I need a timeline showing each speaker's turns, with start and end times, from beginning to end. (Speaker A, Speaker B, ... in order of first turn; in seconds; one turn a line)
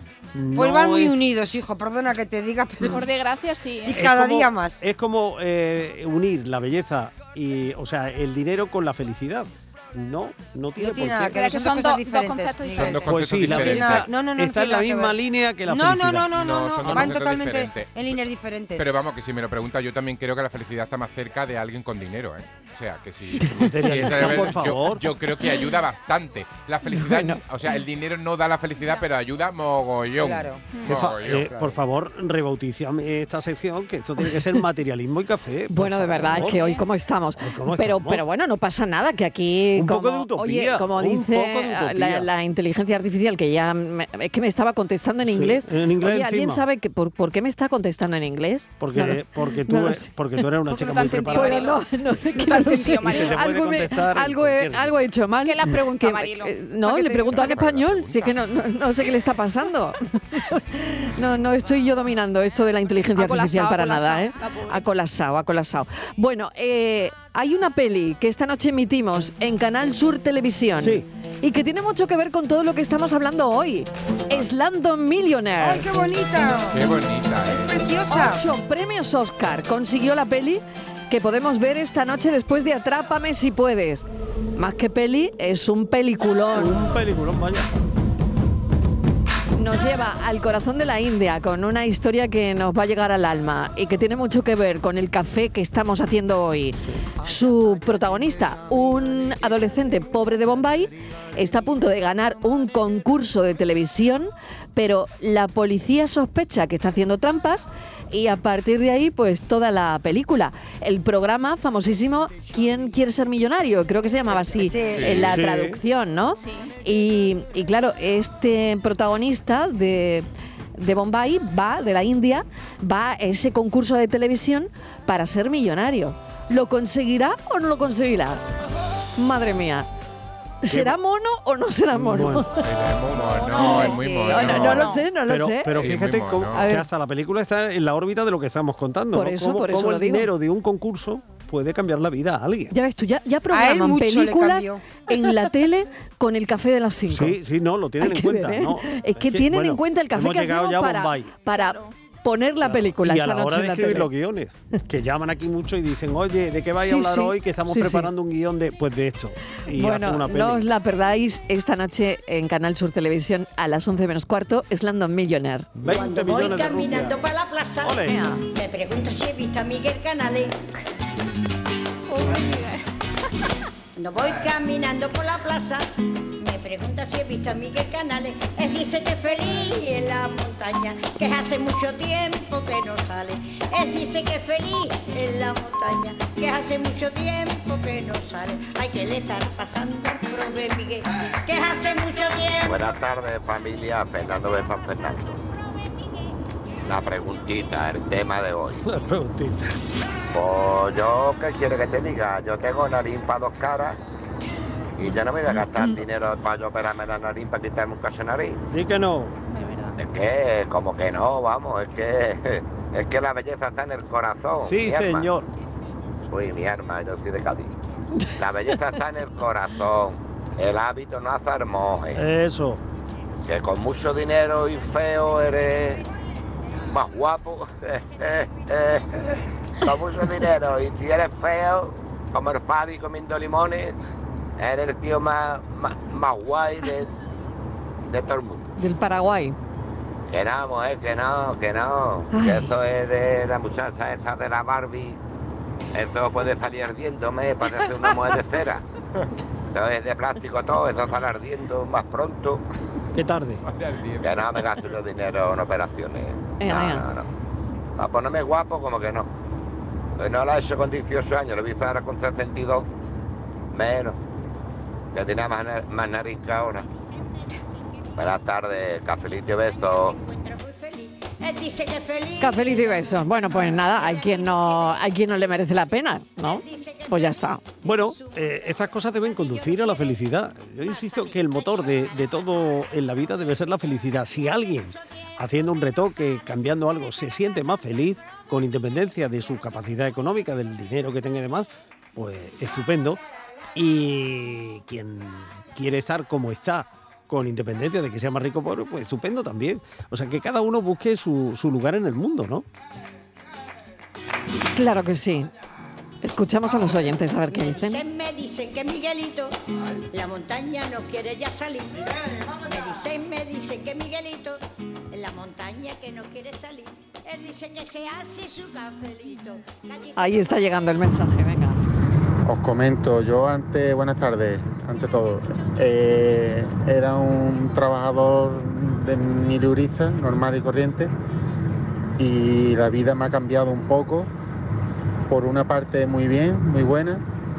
Speaker A: 0.3-1.2
Speaker B: 0.5-3.1
Speaker C: 2.8-4.1
Speaker A: 3.9-11.4
Speaker B: 3.9-4.8
Speaker B: 10.8-18.9
Speaker C: 11.3-13.6
Speaker D: 12.7-14.1
Speaker A: 13.1-16.3
Speaker D: 16.3-18.1
Speaker A: 16.8-17.1
Speaker D: 18.8-31.6
Speaker E: 23.4-24.1
Speaker A: 23.6-25.0
Speaker E: 26.9-27.4
Speaker B: 30.2-30.6
Speaker A: 30.9-36.6
Speaker E: 35.7-50.1
Speaker C: 36.3-36.9
Speaker A: 37.4-38.2
Speaker A: 39.8-42.3
Speaker A: 45.2-46.6
Speaker A: 48.8-51.6
Speaker C: 50.7-53.5
Speaker E: 51.3-76.1
Speaker A: 53.0-55.1
Speaker C: 55.4-57.6
Speaker D: 57.2-58.4
Speaker C: 63.1-64.9
Speaker A: 70.8-71.1
Speaker B: 75.6-78.4
Speaker D: 76.7-77.8
Speaker E: 78.1-86.8
Speaker A: 86.5-87.7
Speaker E: 89.5-128.4
Speaker B: 114.5-115.3
Speaker D: 115.0-115.3
Speaker A: 115.1-115.8
Speaker C: 116.4-116.7
Speaker E: 129.2-129.9
Speaker E: 130.6-132.6
Speaker A: 130.7-131.0
Speaker A: 131.9-132.5
Speaker D: 132.6-134.9
Speaker C: 133.4-135.1
Speaker E: 133.6-135.9
Speaker A: 134.5-142.7
Speaker D: 135.8-136.7
Speaker E: 136.5-136.9
Speaker E: 139.1-140.3
Speaker E: 142.7-147.4
Speaker B: 143.5-145.0
Speaker A: 147.1-151.3
Speaker E: 148.0-154.1
Speaker C: 151.5-151.9
Speaker A: 152.6-160.7
Speaker E: 156.8-158.1
Speaker E: 159.7-165.7
Speaker A: 165.8-167.2
Speaker F: 165.9-170.6
Speaker A: 167.8-168.2
Speaker E: 168.0-168.4
Speaker C: 172.1-172.9
Speaker F: 174.0-192.8
Speaker G: 192.6-195.4
Speaker G: 196.8-198.8
Speaker A: 198.8-199.8
Speaker G: 200.3-204.0
Speaker G: 205.0-208.6
Speaker A: 208.7-209.3
Speaker C: 209.5-209.9
Speaker G: 210.0-215.3
Speaker A: 214.6-215.5
Speaker G: 216.3-217.8
Speaker G: 218.4-222.2
Speaker A: 222.2-222.8
Speaker G: 223.5-226.0
Speaker G: 226.9-229.1
Speaker G: 229.8-234.0
Speaker G: 234.6-237.1
Speaker G: 238.1-238.7
Speaker E: 238.8-239.6
Speaker G: 240.3-245.2
Speaker E: 242.3-242.7
Speaker G: 245.9-248.8
Speaker G: 249.7-252.6
Speaker A: 253.2-253.7
Speaker D: 253.6-254.5
Speaker G: 254.2-257.3
Speaker E: 256.6-257.1
Speaker G: 258.0-259.3
Speaker G: 260.2-262.9
Speaker G: 263.7-264.2
Speaker G: 265.1-266.9
Speaker G: 268.2-270.2
Speaker F: 269.9-275.0
Speaker E: 272.4-277.6
Speaker F: 276.5-277.6
Speaker A: 277.8-293.2
Speaker A: 293.8-302.7
Speaker E: 304.8-305.5
Speaker E: 306.2-308.0
Speaker F: 307.5-309.6
Speaker F: 310.1-320.5
Speaker E: 320.2-321.8
Speaker H: 322.4-331.1
Speaker H: 332.2-334.3
Speaker H: 335.3-337.2